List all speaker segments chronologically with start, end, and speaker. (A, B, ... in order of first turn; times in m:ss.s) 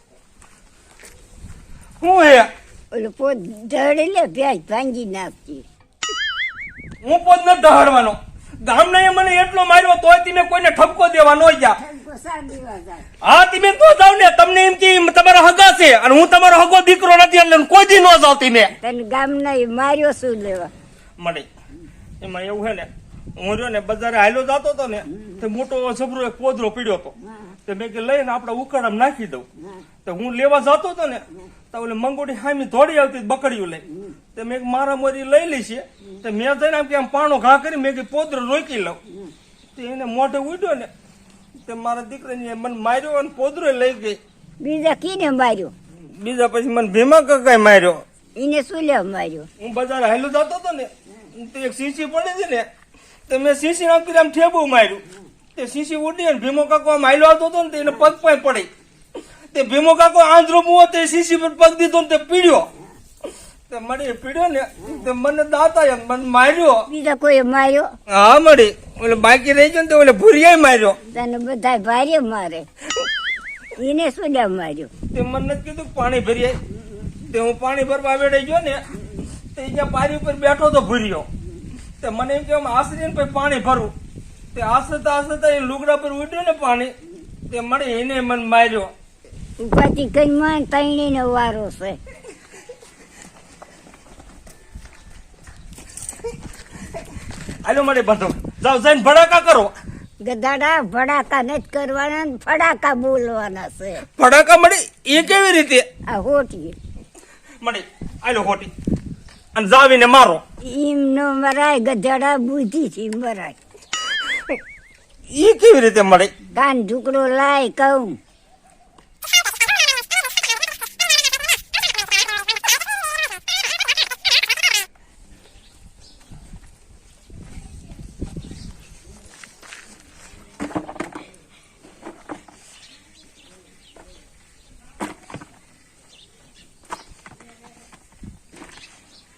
0:02.0-0:02.5 A
0:02.9-0:05.6 B
0:07.0-0:11.8 A
0:11.8-0:13.1 B
0:13.2-0:18.7 A
0:18.8-0:20.7 B
0:21.2-0:21.5 A
0:22.2-0:29.5 A
0:30.0-0:39.0 A
0:39.8-0:40.9 A
0:41.6-0:44.2 A
0:44.6-0:45.7 B
0:46.2-0:48.0 A
0:48.4-0:49.5 B
0:49.6-0:52.7 A
0:53.3-0:55.0 A
0:55.6-0:58.7 A
0:59.5-1:02.7 A
1:03.7-1:06.8 A
1:06.9-1:07.9 B
1:08.1-1:11.0 A
1:11.1-1:12.7 B
1:13.8-1:14.9 B
1:15.1-1:16.6 A
1:17.3-1:18.8 A
1:19.6-1:21.3 A
1:22.0-1:23.9 A
1:24.5-1:26.9 A
1:27.5-1:28.9 A
1:29.6-1:32.0 B
1:37.6-1:39.7 A
1:40.2-1:44.0 B
1:44.2-1:45.8 A
1:46.1-1:46.8 B
1:47.6-1:48.7 A
1:49.6-1:50.4 A
1:50.6-1:53.6 B
1:55.3-1:56.3 A
1:56.6-1:58.2 B